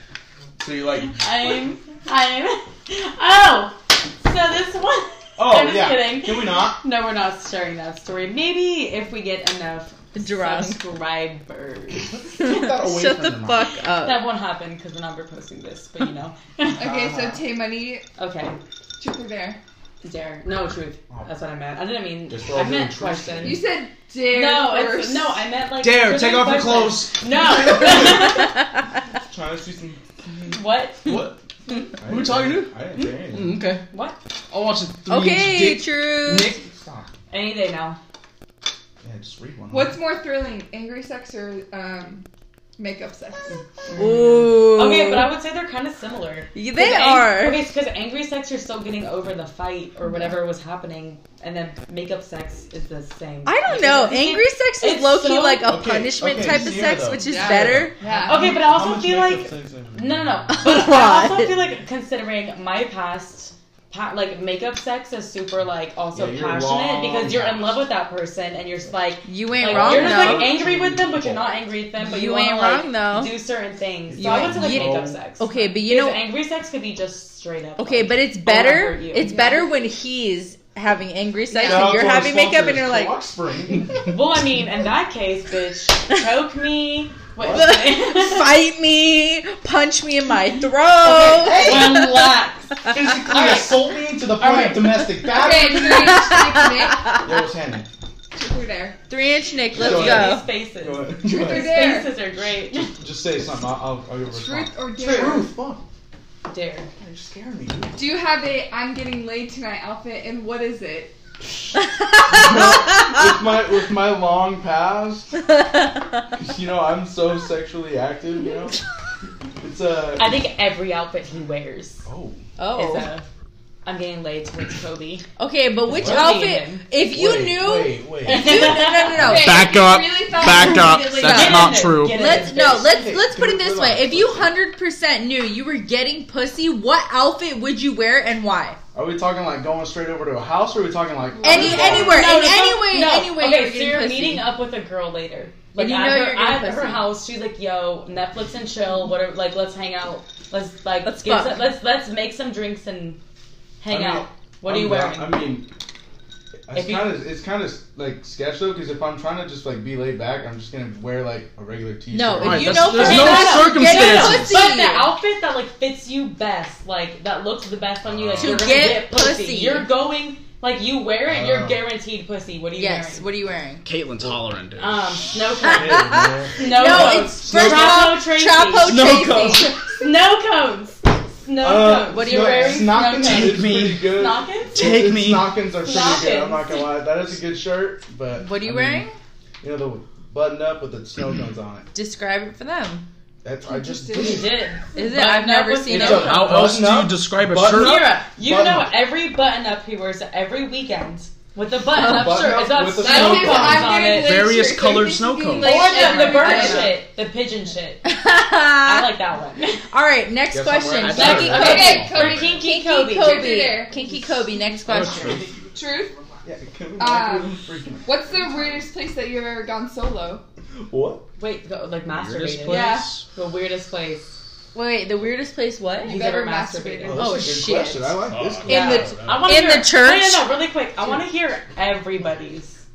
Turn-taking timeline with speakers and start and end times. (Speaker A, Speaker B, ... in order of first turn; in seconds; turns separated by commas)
Speaker A: 0.6-1.6, Speaker B: 1.0-12.1, Speaker A: 5.4-6.8, Speaker C: 10.2-10.8, Speaker A: 12.0-13.7, Speaker C: 12.4-14.2, Speaker B: 14.0-16.8, Speaker A: 16.8-17.4, Speaker D: 16.8-18.1, Speaker B: 18.2-18.6, Speaker D: 19.0-19.6, Speaker B: 20.0-23.6, Speaker A: 21.1-21.4, Speaker A: 22.3-23.6, Speaker D: 23.4-25.5, Speaker B: 24.3-28.6, Speaker E: 25.8-27.1, Speaker A: 27.2-28.5, Speaker A: 29.1-31.4, Speaker B: 30.5-31.1, Speaker A: 32.0-33.7, Speaker E: 32.0-32.8, Speaker E: 33.3-33.8, Speaker B: 33.9-34.2, Speaker E: 34.5-36.5, Speaker C: 35.1-36.6, Speaker A: 36.3-37.1, Speaker B: 37.3-38.0, Speaker A: 39.0-40.0, Speaker D: 39.7-42.2, Speaker D: 42.8-43.6, Speaker B: 43.5-55.7, Speaker C: 44.0-45.3, Speaker C: 46.5-47.6, Speaker C: 53.5-57.9, Speaker A: 55.6-60.6, Speaker D: 57.2-58.6, Speaker B: 58.2-79.4, Speaker C: 60.6-61.5, Speaker A: 66.1-67.8, Speaker C: 69.2-70.6, Speaker A: 69.5-71.5, Speaker C: 72.0-73.3, Speaker A: 74.1-75.2, Speaker C: 74.2-76.2, Speaker C: 77.8-83.2, Speaker D: 79.2-79.8, Speaker D: 81.5-82.1, Speaker A: 81.6-84.4, Speaker B: 84.1-88.5, Speaker A: 87.4-87.8, Speaker C: 87.5-92.3, Speaker A: 91.0-92.1, Speaker B: 91.0-95.1, Speaker A: 92.9-96.2, Speaker D: 95.2-97.1, Speaker C: 95.7-97.2, Speaker A: 97.1-97.9, Speaker D: 98.3-99.0, Speaker C: 99.1-100.5, Speaker A: 99.7-105.8, Speaker B: 99.7-103.0, Speaker D: 101.2-102.1, Speaker D: 104.2-105.6, Speaker B: 106.5-106.9, Speaker A: 107.0-108.0, Speaker D: 108.0-111.2, Speaker A: 112.2-115.5, Speaker A: 116.3-118.8, Speaker A: 119.6-120.4, Speaker B: 120.2-122.1, Speaker A: 122.0-122.4, Speaker C: 122.6-123.1, Speaker B: 122.8-123.2, Speaker B: 123.8-125.3, Speaker C: 125.4-129.7, Speaker A: 125.9-126.4, Speaker B: 126.0-126.9, Speaker A: 127.0-129.5, Speaker B: 128.3-129.1, Speaker D: 129.1-131.8, Speaker E: 129.1-132.3, Speaker C: 130.4-138.8, Speaker B: 131.2-132.9, Speaker A: 132.6-134.5, Speaker A: 138.9-142.2, Speaker D: 141.3-142.3, Speaker C: 141.4-144.5, Speaker B: 141.7-153.2, Speaker C: 145.8-147.1, Speaker C: 151.1-151.7, Speaker B: 153.8-155.5, Speaker A: 153.9-155.7, Speaker A: 156.7-163.5, Speaker B: 156.7-157.2, Speaker C: 162.1-165.1, Speaker E: 162.4-164.6, Speaker B: 162.9-173.3, Speaker A: 168.1-168.9, Speaker C: 168.4-169.9, Speaker A: 171.3-171.9, Speaker C: 172.8-173.8, Speaker E: 173.8-175.1, Speaker B: 174.8-178.9, Speaker A: 175.6-178.1, Speaker C: 175.7-179.8, Speaker E: 178.9-179.4, Speaker A: 178.9-179.7, Speaker B: 179.8-184.8, Speaker A: 181.6-189.1, Speaker C: 182.1-183.0, Speaker E: 183.1-184.2, Speaker E: 184.7-185.6, Speaker B: 185.8-186.9, Speaker C: 188.4-189.1, Speaker A: 189.6-191.9, Speaker C: 191.9-193.1, Speaker A: 193.4-194.7, Speaker D: 193.7-194.6, Speaker B: 194.1-196.6, Speaker C: 194.9-196.4, Speaker E: 195.9-198.2, Speaker A: 195.9-199.0, Speaker B: 197.7-204.4, Speaker C: 201.9-202.6, Speaker A: 202.0-204.1, Speaker D: 203.0-207.0, Speaker E: 204.0-206.1, Speaker B: 205.6-208.1, Speaker C: 205.6-207.0, Speaker C: 208.0-209.1, Speaker B: 208.8-209.8, Speaker C: 209.9-215.4, Speaker A: 210.5-212.6, Speaker E: 210.9-212.2, Speaker B: 211.1-213.6, Speaker D: 211.5-214.4, Speaker E: 214.9-215.5, Speaker A: 214.9-215.6, Speaker D: 215.7-216.3, Speaker A: 216.4-218.8, Speaker D: 217.0-220.4, Speaker A: 220.9-221.2, Speaker B: 221.4-224.3, Speaker E: 222.1-223.2, Speaker C: 222.7-223.1, Speaker D: 222.7-223.0, Speaker C: 224.7-226.2, Speaker D: 226.0-227.4, Speaker B: 226.1-227.5, Speaker A: 227.0-229.1, Speaker C: 227.2-228.2, Speaker E: 228.3-229.5, Speaker C: 228.7-230.5, Speaker B: 229.0-232.8